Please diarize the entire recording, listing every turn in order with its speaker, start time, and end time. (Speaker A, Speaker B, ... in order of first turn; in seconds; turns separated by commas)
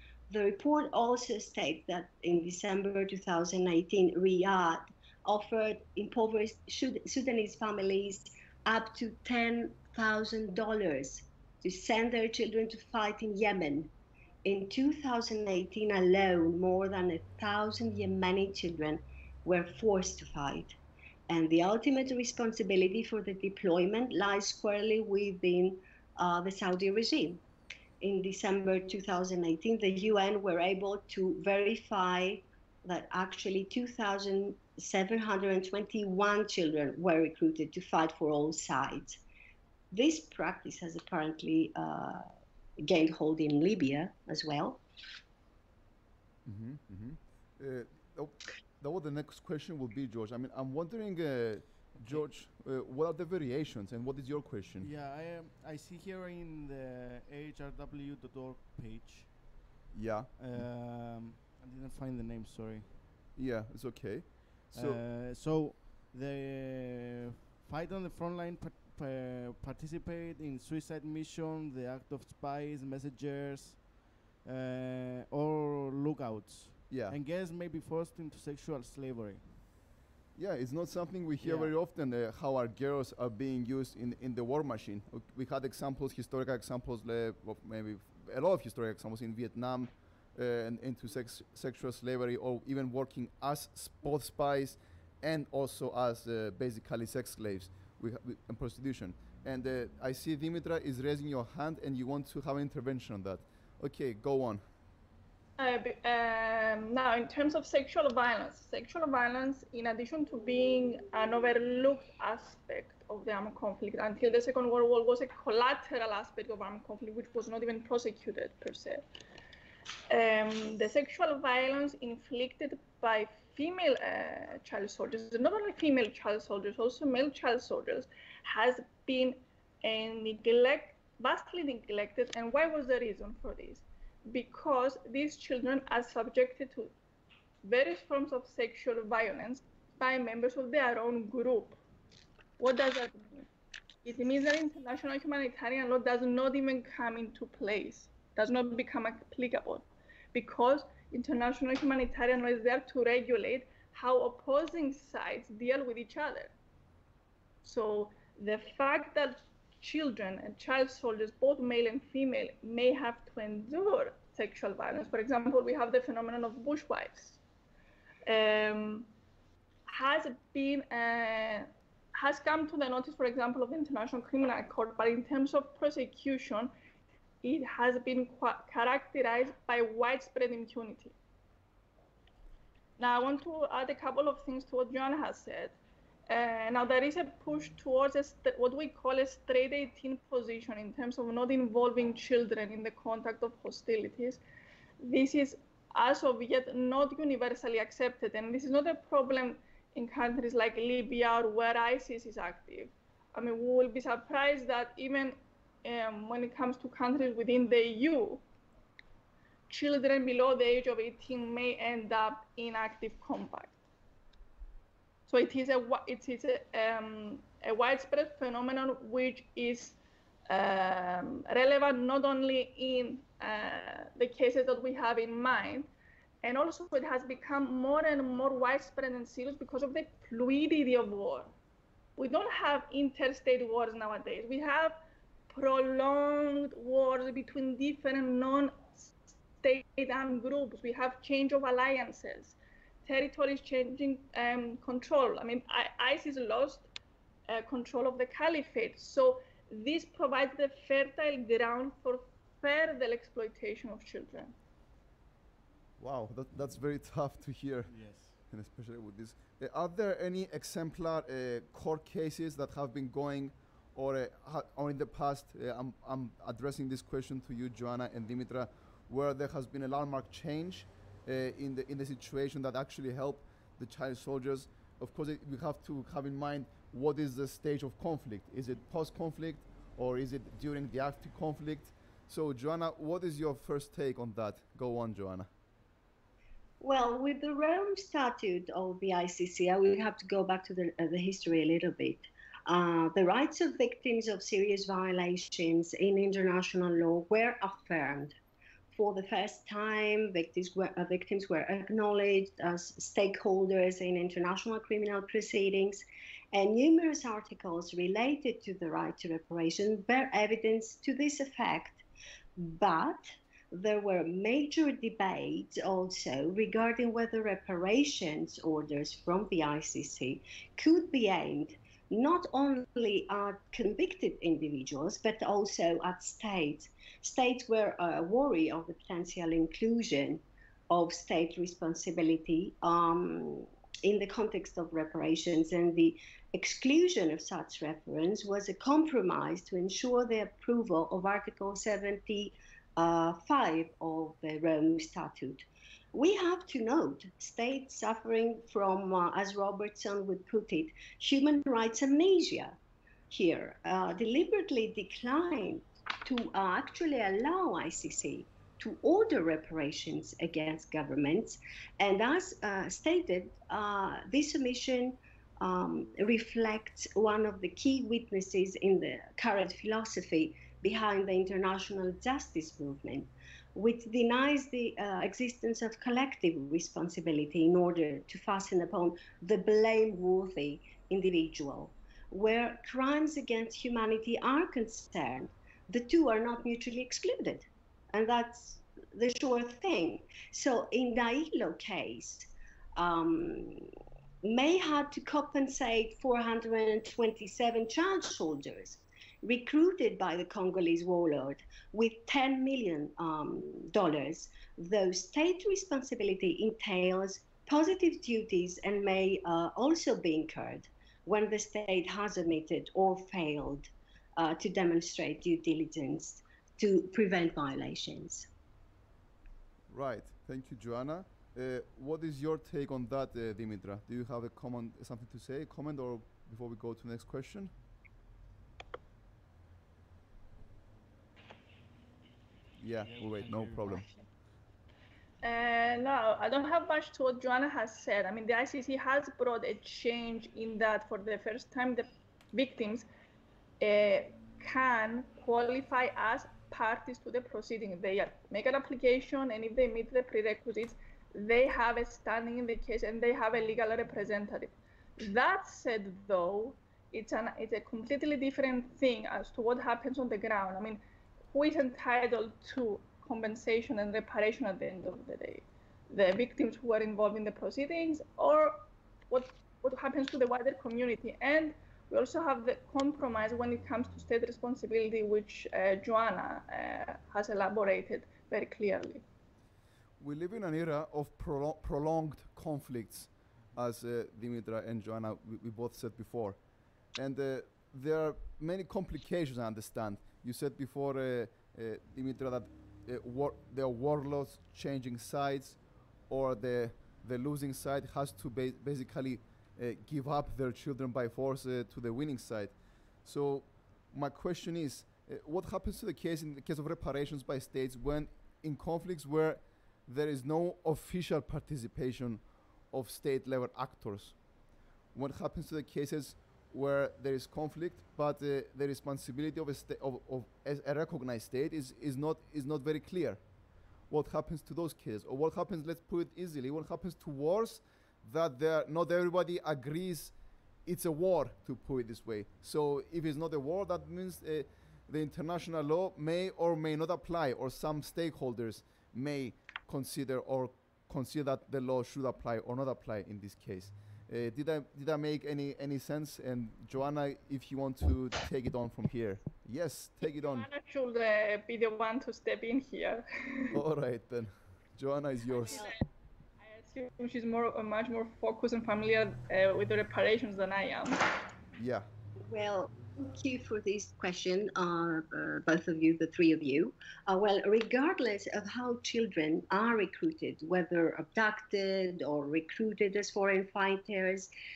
Speaker A: 0.3-13.9, Speaker A: 14.4-20.8, Speaker A: 21.3-27.4, Speaker A: 28.0-39.2, Speaker A: 39.9-42.3, Speaker A: 42.8-44.8, Speaker B: 46.5-54.9, Speaker C: 52.0-52.3, Speaker C: 54.8-59.5, Speaker B: 59.9-60.7, Speaker C: 60.4-63.0, Speaker B: 63.4-65.0, Speaker C: 64.7-79.6, Speaker B: 76.9-77.2, Speaker B: 80.3-104.6, Speaker C: 81.4-81.7, Speaker D: 105.6-119.0, Speaker D: 120.1-136.9, Speaker D: 137.6-141.8, Speaker D: 142.6-143.5, Speaker D: 144.0-156.5, Speaker D: 157.6-167.4, Speaker D: 168.3-169.1, Speaker D: 169.9-176.7, Speaker D: 177.4-181.2, Speaker D: 183.0-185.8, Speaker D: 186.3-194.4, Speaker D: 195.0-208.4, Speaker D: 209.7-213.8, Speaker D: 215.3-220.0, Speaker D: 220.5-225.9, Speaker D: 226.4-231.5, Speaker D: 232.2-235.0, Speaker D: 235.5-246.9, Speaker D: 247.5-254.5, Speaker B: 256.0-285.5, Speaker C: 257.9-258.4, Speaker A: 286.8-298.4, Speaker A: 298.9-312.1, Speaker A: 312.6-352.8, Speaker A: 353.3-393.9, Speaker A: 394.4-418.5, Speaker B: 419.9-427.7, Speaker B: 432.8-434.1, Speaker C: 433.0-434.2, Speaker D: 435.4-443.1, Speaker D: 443.8-461.0, Speaker D: 461.5-479.2, Speaker B: 480.2-514.4, Speaker B: 515.1-523.4, Speaker B: 524.1-550.7, Speaker D: 550.2-553.8, Speaker B: 553.7-555.8, Speaker D: 556.6-561.2, Speaker B: 561.7-562.1, Speaker A: 562.5-574.5